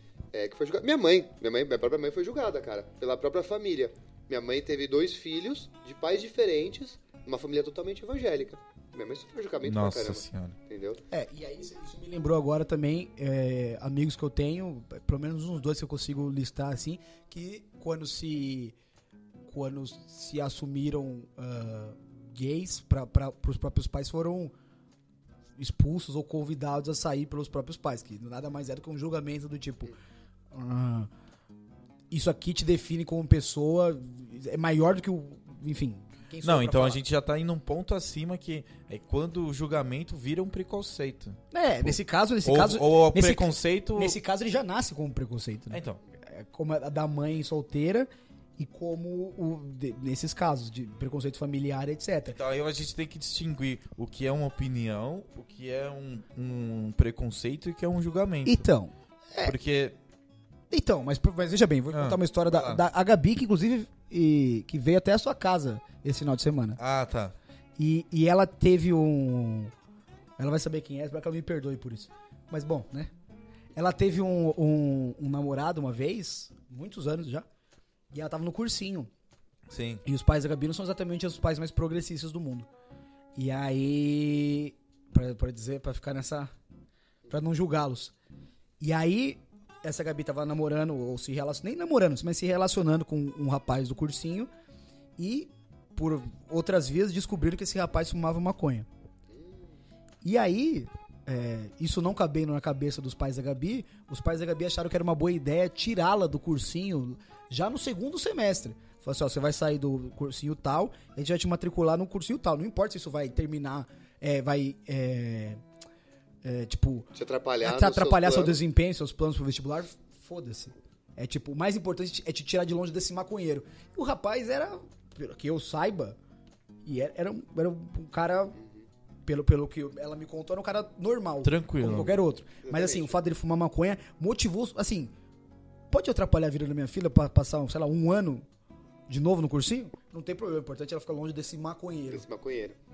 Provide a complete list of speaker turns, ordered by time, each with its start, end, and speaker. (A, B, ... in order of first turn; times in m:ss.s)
0:00.3-0:11.0 A
0:09.6-0:10.6 B
0:11.1-0:18.7 C
0:19.5-0:24.5 C
0:25.6-0:29.9 C
0:30.5-0:31.1 C
0:32.1-0:37.0 C
0:36.4-0:44.2 B
0:41.5-0:52.4 C
0:45.7-0:46.0 B
0:52.2-0:58.6 B
0:58.4-0:59.5 C
0:59.4-1:00.0 B
1:00.7-1:06.8 C
1:01.9-1:02.8 B
1:06.8-1:07.3 B
1:07.8-1:09.7 C
1:10.4-1:13.1 C
1:13.8-1:17.4 C
1:18.1-1:19.1 C
1:19.7-1:20.0 B
1:20.0-1:22.7 C
1:23.4-1:26.5 C
1:27.3-1:28.1 C
1:28.8-1:34.5 C
1:35.2-1:38.9 C
1:39.3-1:39.8 A
1:40.2-1:55.6 C
1:56.4-1:57.1 C
1:57.1-1:58.6 A
1:57.6-2:06.2 C
2:06.8-2:08.6 C
2:08.6-2:08.9 A
2:09.2-2:15.1 C
2:11.4-2:12.2 B
2:12.6-2:13.1 A
2:15.9-2:18.4 C
2:19.1-2:22.2 C
2:22.1-2:22.8 A